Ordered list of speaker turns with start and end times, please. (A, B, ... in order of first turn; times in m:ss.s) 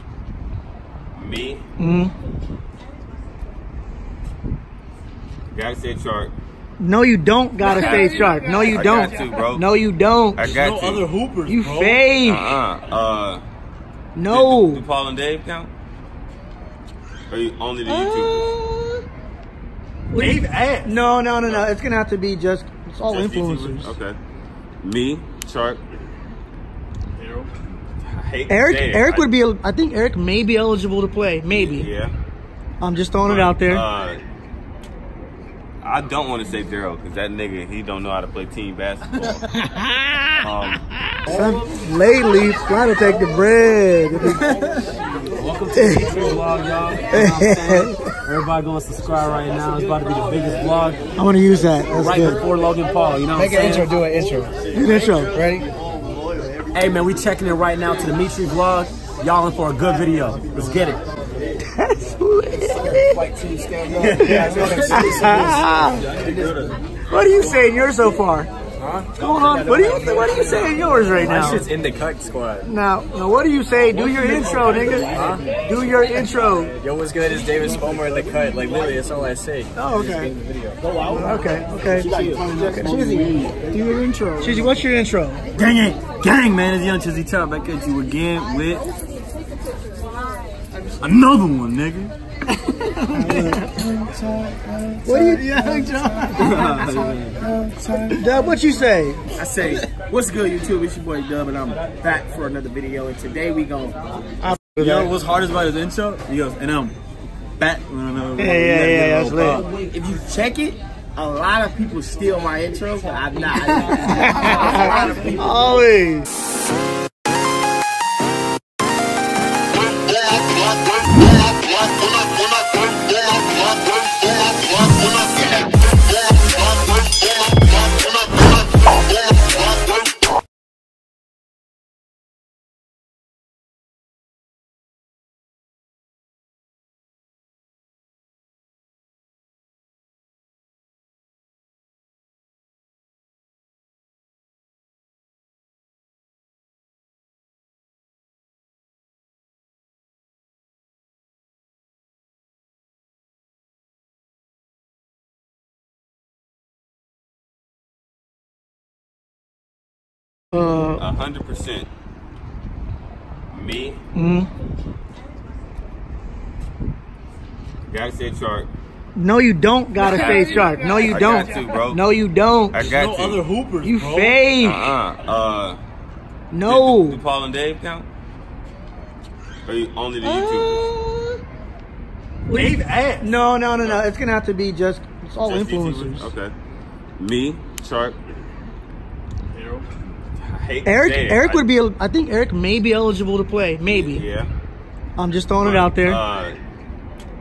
0:01.1-0:01.6 A
0:01.8-0:02.1 B
0:05.5-0:06.3 A
0:06.8-0:10.5 B
0:07.6-0:09.6 A
0:10.4-0:11.1 A
0:10.4-0:12.1 C
0:11.5-0:12.6 B
0:12.2-0:13.4 A
0:14.2-0:14.8 B
0:14.3-0:15.7 A
0:17.3-0:18.6 A
0:17.9-0:19.0 B
0:20.1-0:24.0 B
0:20.2-0:20.9 C
0:23.1-0:24.2 A
0:24.8-0:25.8 A
0:27.2-0:27.5 C
0:27.8-0:29.3 A
0:28.5-0:31.9 B
0:31.5-0:32.1 A
0:32.8-0:33.8 B
0:33.2-0:34.2 A
0:35.8-0:39.4 A
0:39.5-0:40.3 B
0:40.4-0:40.8 A
0:41.3-0:44.5 B
0:45.4-0:47.7 C
0:45.7-0:46.1 B
0:45.8-0:46.2 D
0:47.1-0:47.9 D
0:47.1-0:48.1 B
0:48.2-0:51.0 C
0:51.2-0:52.4 B
0:52.0-0:54.0 C
0:53.3-0:54.6 D
0:54.7-0:55.7 B
0:56.7-1:01.0 C
0:57.6-0:58.2 D
1:01.6-1:03.2 B
1:02.6-1:05.6 D
1:04.0-1:05.5 C
1:04.2-1:06.1 B
1:06.2-1:06.7 D
1:06.2-1:06.5 C
1:07.1-1:08.5 B
1:08.8-1:09.1 D
1:09.2-1:11.7 B
1:09.8-1:12.7 D
1:12.6-1:16.7 B
1:14.2-1:15.4 C
1:15.1-1:15.4 D
1:16.8-1:21.3 D
1:19.8-1:20.3 B
1:21.1-1:22.1 B
1:21.8-1:24.7 D
1:22.2-1:23.3 C
1:24.4-1:25.4 B
1:25.6-1:28.9 C
1:31.0-1:32.1 C
1:32.7-1:33.8 D
1:33.1-1:33.7 B
1:34.0-1:35.4 C
1:35.0-1:36.6 B
1:36.4-1:37.4 D
1:36.4-1:37.9 C
1:38.1-1:39.3 B
1:39.4-1:44.0 E
1:44.4-1:45.1 B
1:44.6-1:47.0 C
1:47.6-1:49.7 C
1:48.4-1:49.7 B
1:49.5-1:55.5 E
1:53.8-1:56.3 B
1:54.3-1:55.4 D
2:40.5-2:41.0 B
2:41.0-2:41.9 A
2:43.5-2:44.0 A
2:44.2-2:44.5 B
2:47.9-2:48.7 A
2:49.2-2:52.8 B
2:50.0-2:52.0 A
2:52.7-2:53.4 A
2:52.8-2:54.4 C
2:53.8-2:54.9 B
2:54.6-2:55.8 A
2:56.5-2:57.2 B
2:56.6-2:58.1 A
2:59.6-3:00.9 A
3:00.2-3:01.4 B
3:02.5-3:06.3 B
3:02.5-3:03.3 C
3:05.4-3:06.5 A
3:07.2-3:08.2 A
3:09.5-3:09.9 C
3:10.2-3:11.7 A
3:10.8-3:14.2 B
3:13.8-3:14.5 A
3:15.2-3:16.2 B
3:15.6-3:16.6 A